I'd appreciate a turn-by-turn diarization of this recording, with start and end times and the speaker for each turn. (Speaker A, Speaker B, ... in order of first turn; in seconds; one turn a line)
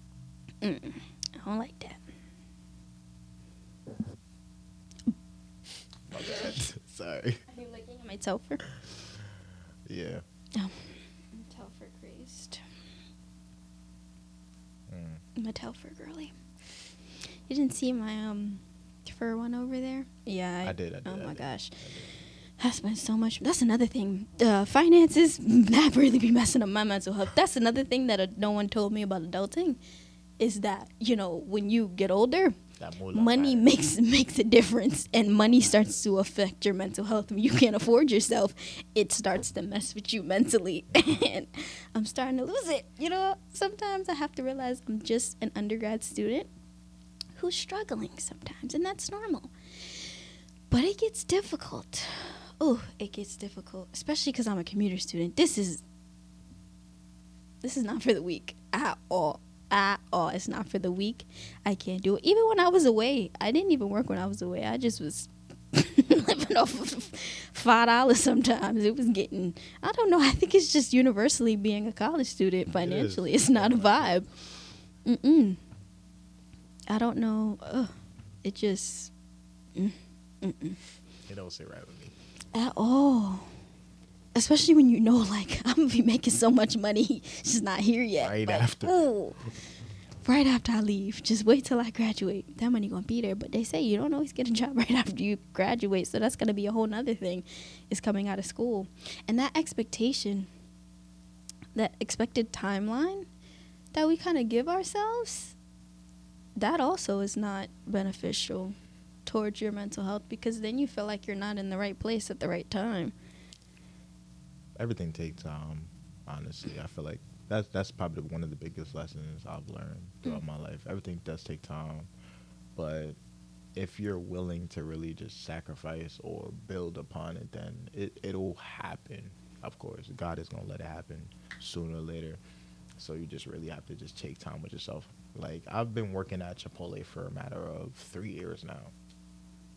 Speaker A: 0.6-2.0
Speaker B: 6.1-7.4
Speaker A: 6.2-6.5
Speaker A: 7.5-8.6
Speaker B: 9.8-10.2
Speaker A: 10.6-12.6
Speaker B: 14.9-15.2
Speaker A: 15.3-16.3
Speaker A: 17.5-21.8
Speaker B: 20.6-22.1
Speaker A: 22.6-29.8
Speaker A: 30.4-32.6
Speaker B: 32.8-33.7
Speaker A: 33.1-46.5
Speaker B: 35.5-35.9
Speaker A: 47.4-49.5
Speaker A: 50.7-55.8
Speaker A: 57.6-74.3
Speaker B: 72.7-74.2
Speaker A: 75.0-75.6
Speaker A: 76.9-77.9
Speaker A: 78.4-79.1
Speaker A: 79.8-80.8
Speaker B: 81.3-82.1
Speaker A: 82.5-83.5
Speaker A: 84.3-89.4
Speaker B: 88.2-89.0
Speaker A: 90.2-100.5
Speaker A: 101.7-103.2
Speaker A: 103.9-105.5
Speaker A: 106.6-113.1
Speaker B: 114.8-122.1
Speaker B: 122.7-123.2
Speaker B: 123.7-132.4
Speaker B: 133.0-138.9